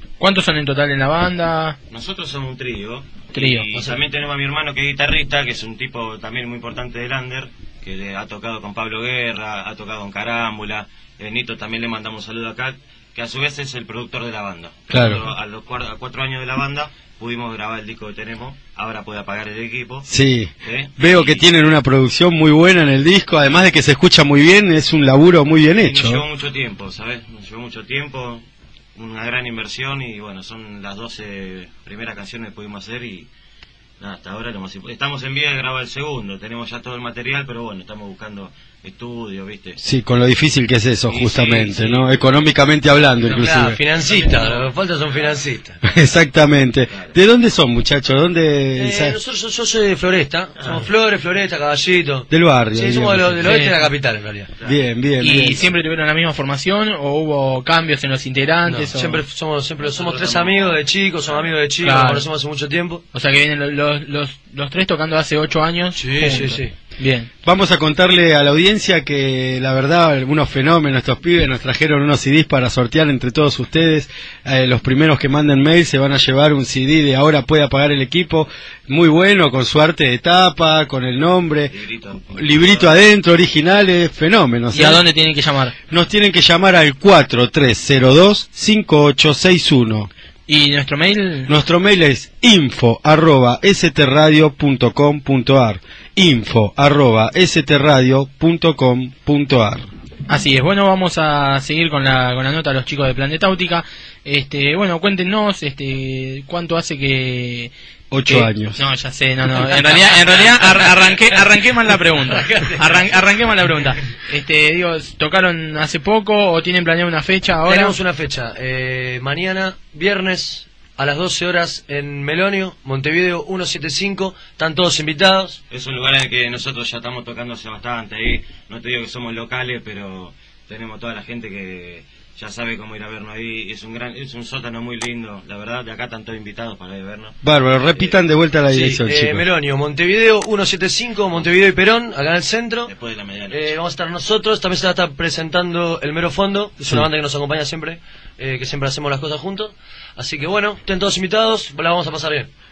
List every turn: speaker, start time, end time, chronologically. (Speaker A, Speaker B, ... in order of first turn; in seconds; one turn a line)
Speaker A: 0.2-1.8
Speaker B: 1.9-20.1
Speaker A: 3.3-3.6
Speaker C: 3.7-4.0
Speaker D: 14.9-15.3
Speaker D: 20.1-26.2
Speaker B: 20.6-21.5
Speaker B: 25.7-33.3
Speaker B: 34.0-39.8
Speaker D: 39.8-43.8
Speaker B: 41.1-42.1
Speaker C: 43.2-45.8
Speaker B: 43.3-45.4
Speaker D: 45.8-49.1
Speaker B: 46.9-47.1
Speaker C: 48.7-54.5
Speaker B: 50.6-50.9
Speaker D: 52.3-53.5
Speaker A: 53.4-53.7
Speaker D: 54.6-55.6
Speaker A: 55.2-59.2
Speaker C: 58.7-63.0
Speaker B: 59.8-61.7
Speaker A: 61.8-62.2
Speaker A: 63.1-67.3
Speaker C: 66.0-66.7
Speaker D: 67.4-81.7
Speaker B: 81.7-83.0
Speaker D: 82.3-85.0
Speaker A: 84.7-85.7
Speaker D: 85.9-90.1
Speaker A: 90.5-91.5
Speaker D: 91.5-99.8
Speaker A: 100.3-107.7
Speaker D: 108.1-108.8
Speaker A: 108.3-117.9
Speaker C: 109.6-111.4
Speaker C: 112.2-113.0
Speaker C: 117.7-125.6
Speaker B: 125.7-137.4
Speaker D: 137.4-139.4
Speaker C: 138.7-142.9
Speaker B: 142.8-143.8
Speaker C: 143.5-152.5